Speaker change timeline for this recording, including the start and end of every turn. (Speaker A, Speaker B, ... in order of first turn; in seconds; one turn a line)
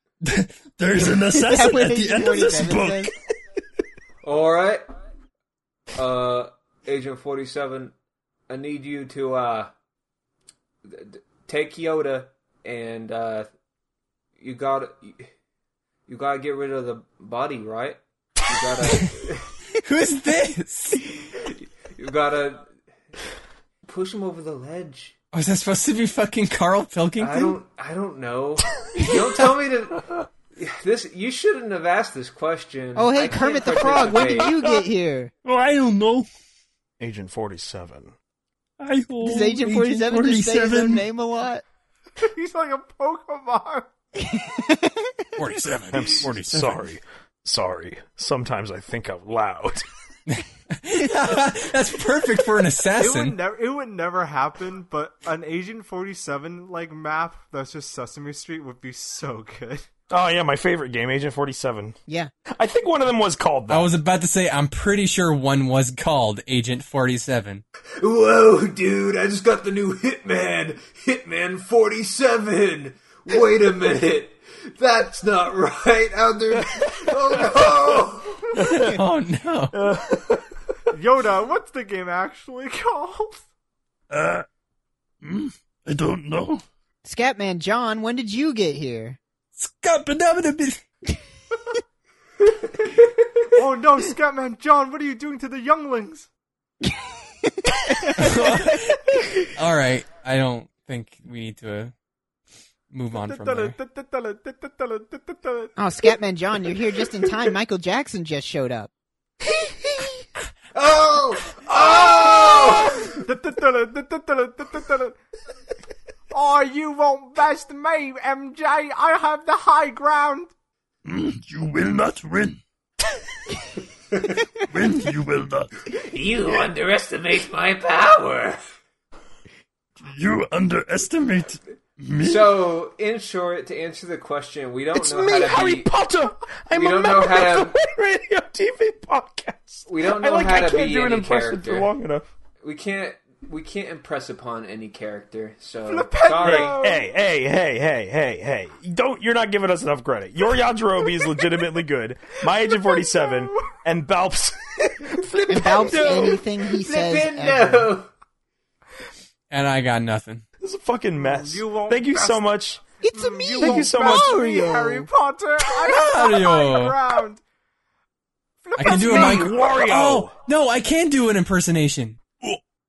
Speaker A: 0.2-3.1
Speaker B: 1.3-3.1
Speaker C: 4.2-4.8
Speaker C: 5.9-7.9
Speaker C: 8.5-9.7
Speaker C: 10.8-13.5
Speaker C: 14.4-15.3
Speaker C: 16.1-19.5
Speaker D: 19.8-21.1
Speaker C: 21.4-22.7
Speaker C: 23.8-25.1
Speaker D: 25.3-27.6
Speaker C: 27.2-34.5
Speaker B: 33.0-35.3
Speaker A: 35.4-36.3
Speaker E: 37.0-38.1
Speaker A: 38.8-41.0
Speaker B: 39.2-41.6
Speaker F: 42.2-43.9
Speaker B: 44.2-45.2
Speaker D: 45.4-46.8
Speaker E: 45.9-49.8
Speaker D: 50.3-53.4
Speaker F: 53.0-59.8
Speaker E: 60.1-63.9
Speaker D: 63.7-67.6
Speaker C: 68.0-78.4
Speaker E: 78.5-79.0
Speaker D: 78.5-79.8
Speaker E: 79.7-80.5
Speaker F: 80.9-83.4
Speaker A: 84.1-84.5
Speaker A: 85.2-86.6
Speaker B: 87.0-89.2
Speaker A: 89.6-90.8
Speaker F: 93.5-96.3
Speaker B: 96.8-99.2
Speaker D: 98.1-101.9
Speaker D: 102.9-103.7
Speaker F: 103.1-105.7
Speaker B: 105.8-108.9
Speaker C: 110.7-113.2
Speaker F: 113.2-115.2
Speaker F: 116.3-120.5
Speaker A: 121.0-122.6
Speaker A: 124.7-125.7
Speaker C: 126.0-128.6
Speaker A: 130.0-132.6
Speaker C: 132.2-135.9
Speaker E: 134.9-142.3
Speaker C: 136.7-137.8
Speaker C: 139.9-141.9
Speaker C: 142.6-146.8
Speaker F: 145.8-147.0
Speaker E: 146.4-156.4
Speaker F: 152.9-153.7
Speaker C: 155.3-158.1
Speaker B: 155.5-157.9
Speaker D: 159.5-160.4
Speaker E: 160.6-162.8
Speaker F: 161.2-162.4
Speaker B: 163.0-165.1
Speaker F: 163.1-167.4
Speaker E: 163.6-164.4
Speaker D: 165.8-167.0
Speaker F: 168.6-169.6
Speaker D: 168.8-172.2
Speaker E: 168.8-170.3